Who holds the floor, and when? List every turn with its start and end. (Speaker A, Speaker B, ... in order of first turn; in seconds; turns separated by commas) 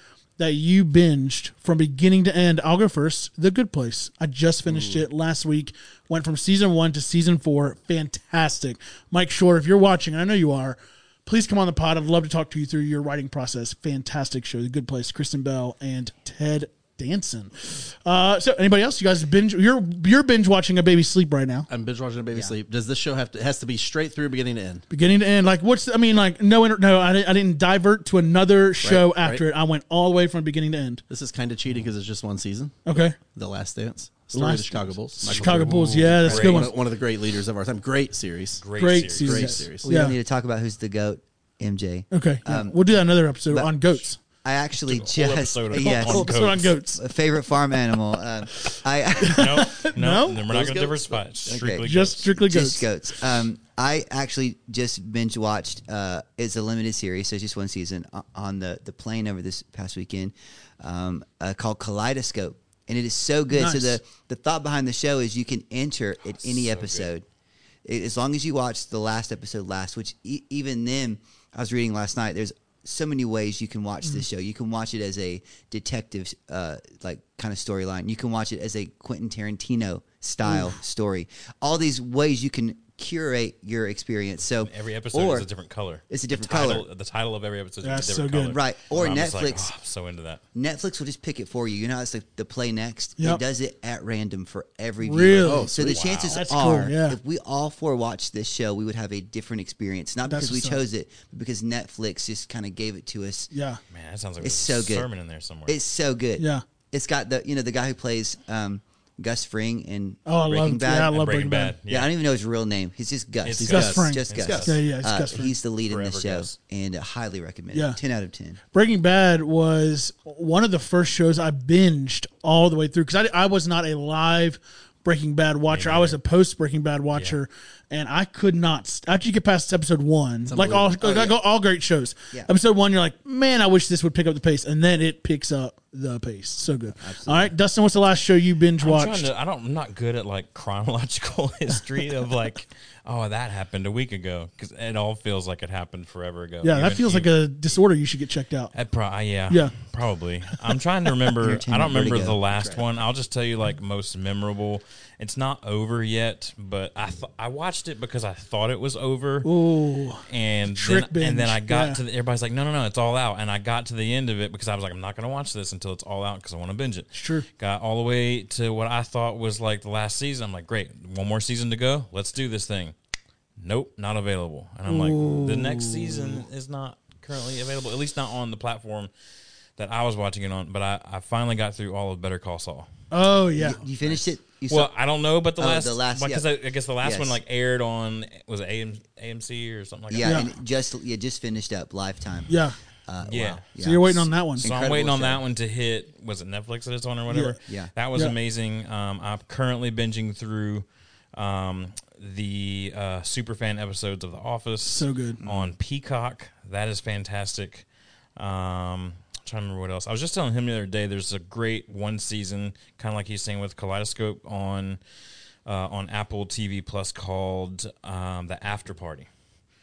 Speaker A: 0.4-21.7, Speaker B: 4.7-5.0, Speaker B: 21.7-24.9, Speaker A: 24.9-31.0, Speaker B: 28.8-29.4, Speaker B: 31.1-39.9, Speaker A: 32.9-33.2, Speaker A: 34.3-36.7, Speaker C: 35.3-36.7, Speaker C: 38.6-39.6, Speaker A: 38.8-40.1, Speaker D: 39.8-42.8, Speaker A: 42.1-44.2, Speaker D: 43.5-49.5, Speaker C: 44.8-46.8, Speaker A: 45.7-47.0, Speaker A: 48.5-50.4, Speaker C: 49.3-52.3, Speaker B: 50.5-51.3, Speaker D: 51.5-67.2, Speaker A: 51.8-52.9, Speaker A: 63.5-64.0, Speaker C: 66.3-67.1, Speaker D: 67.8-85.5, Speaker C: 84.6-90.4, Speaker D: 86.1-86.9, Speaker A: 87.8-88.6, Speaker D: 88.5-89.7, Speaker D: 90.5-103.5, Speaker A: 95.0-95.7, Speaker B: 95.4-96.0, Speaker C: 95.8-96.4, Speaker A: 96.3-97.2, Speaker A: 100.3-100.8, Speaker A: 103.5-103.8, Speaker C: 103.9-105.8, Speaker D: 104.4-105.1, Speaker D: 105.7-111.2, Speaker A: 106.4-106.6, Speaker A: 110.3-111.8, Speaker C: 111.1-112.1, Speaker D: 111.9-118.6, Speaker C: 113.4-114.6, Speaker B: 113.6-114.8, Speaker A: 113.7-115.5, Speaker C: 115.9-116.5, Speaker A: 117.7-118.0, Speaker A: 118.7-139.3, Speaker C: 125.7-126.2, Speaker B: 130.5-131.3, Speaker D: 137.0-137.5, Speaker C: 138.8-147.3, Speaker A: 146.6-148.7, Speaker C: 148.7-159.5, Speaker D: 151.4-152.4, Speaker A: 159.4-162.0, Speaker C: 160.3-172.9, Speaker A: 167.1-167.4, Speaker C: 173.6-179.1, Speaker A: 174.9-176.4, Speaker C: 179.8-182.9, Speaker A: 183.1-183.8, Speaker D: 183.6-184.9, Speaker C: 184.0-190.4, Speaker D: 185.6-186.4, Speaker D: 187.0-187.4, Speaker D: 190.1-192.5, Speaker A: 190.2-190.5, Speaker A: 192.5-192.8, Speaker D: 193.1-195.4, Speaker C: 193.3-193.6, Speaker A: 193.8-194.7, Speaker C: 194.6-207.8, Speaker A: 197.3-197.6, Speaker A: 204.9-205.4, Speaker D: 205.4-205.7, Speaker C: 208.4-215.0, Speaker C: 215.7-219.3